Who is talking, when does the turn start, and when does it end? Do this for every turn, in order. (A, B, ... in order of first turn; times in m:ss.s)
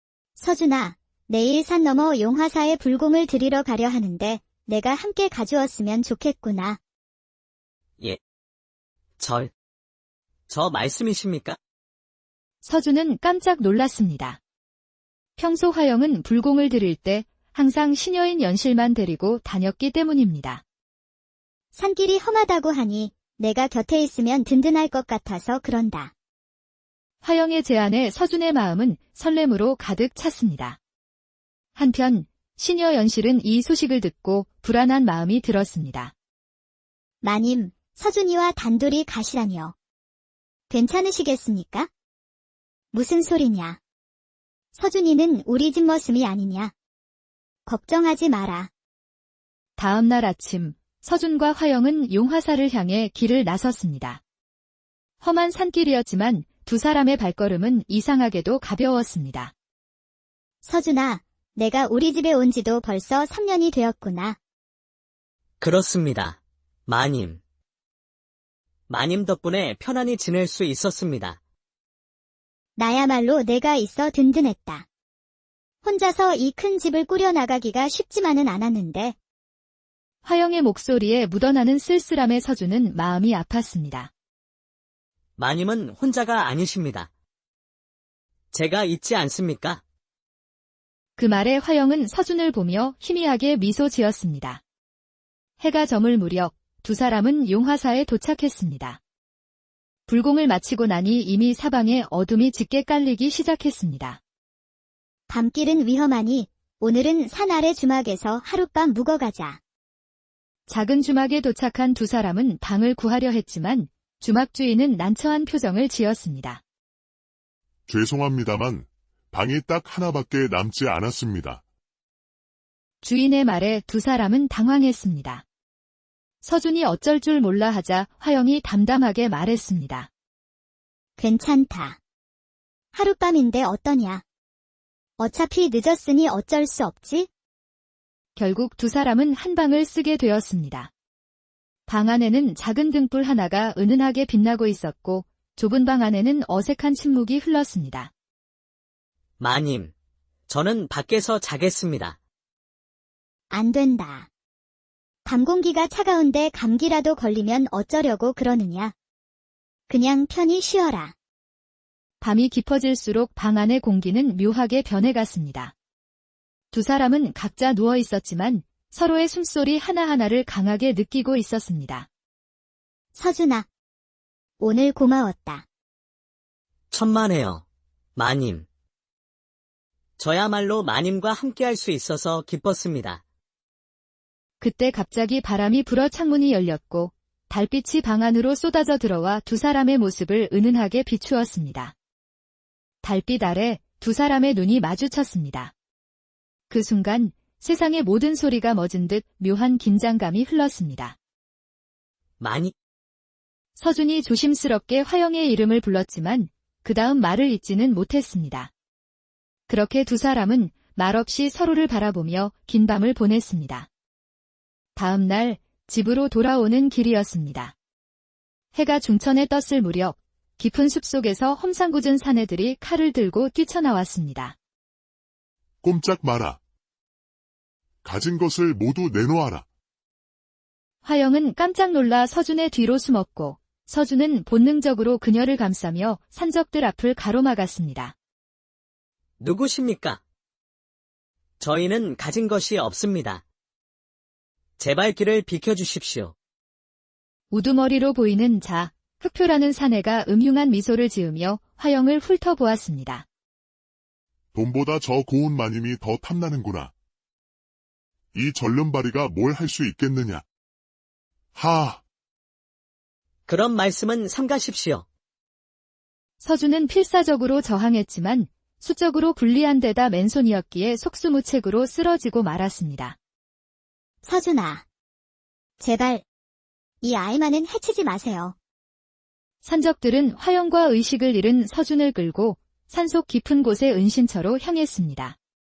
0:00.4-0:06.8 A
0:09.2-0:09.5 B
0:10.5-0:11.6 B
0:12.6-0:14.4 C
0:15.4-0:20.6 C
0:21.8-0:26.1 A
0:27.2-0:30.8 C
0:31.8-0:36.1 C
0:37.2-0:39.7 A
0:40.7-0:41.9 A
0:42.9-0:43.8 A
0:44.8-0:46.7 A
0:47.7-0:48.7 A
0:49.8-0:54.2 C
0:55.2-0:59.5 C
1:00.6-1:04.4 A
1:05.6-1:07.4 B
1:08.9-1:11.4 B
1:12.8-1:14.8 A
1:15.8-1:19.2 A
1:20.2-1:24.1 C
1:25.4-1:27.1 B
1:28.5-1:29.8 B
1:31.2-1:34.6 C
1:35.6-1:39.0 C
1:40.1-1:44.2 C
1:45.3-1:49.6 A
1:50.7-1:56.6 C
1:57.9-2:01.6 D
2:03.0-2:05.4 C
2:06.4-2:10.1 C
2:11.2-2:12.0 A
2:13.0-2:14.2 A
2:15.2-2:17.3 A
2:18.4-2:20.9 C
2:21.9-2:28.1 C
2:29.4-2:29.9 B
2:30.5-2:32.2 B
2:33.5-2:34.3 A
2:35.3-2:38.9 A
2:39.9-2:41.1 A
2:42.2-2:45.7 C
2:46.7-2:52.1 C
2:53.2-2:53.7 A
2:54.6-2:55.6 A
2:56.9-2:57.6 B
2:58.2-2:58.7 B
3:00.2-3:03.2 B
3:04.6-3:11.9 C
3:13.0-3:15.7 C
3:16.7-3:21.2 C
3:22.4-3:22.7 B
3:23.8-3:28.7 C
3:29.7-3:33.9 C
3:35.0-3:37.7 C
3:38.7-3:44.6 C
3:45.8-3:46.6 D
3:48.0-3:49.7 D
3:51.0-3:58.2 C
3:59.4-4:00.2 B
4:01.6-4:03.4 B
4:04.8-4:06.3 B
4:07.5-4:13.3 C
4:14.5-4:16.9 D
4:18.3-4:20.4 D
4:21.6-4:22.0 D
4:23.5-4:25.0 B
4:26.4-4:33.2 C
4:34.2-4:34.8 A
4:35.8-4:36.2 A
4:37.0-4:38.6 A
4:39.6-4:45.4 C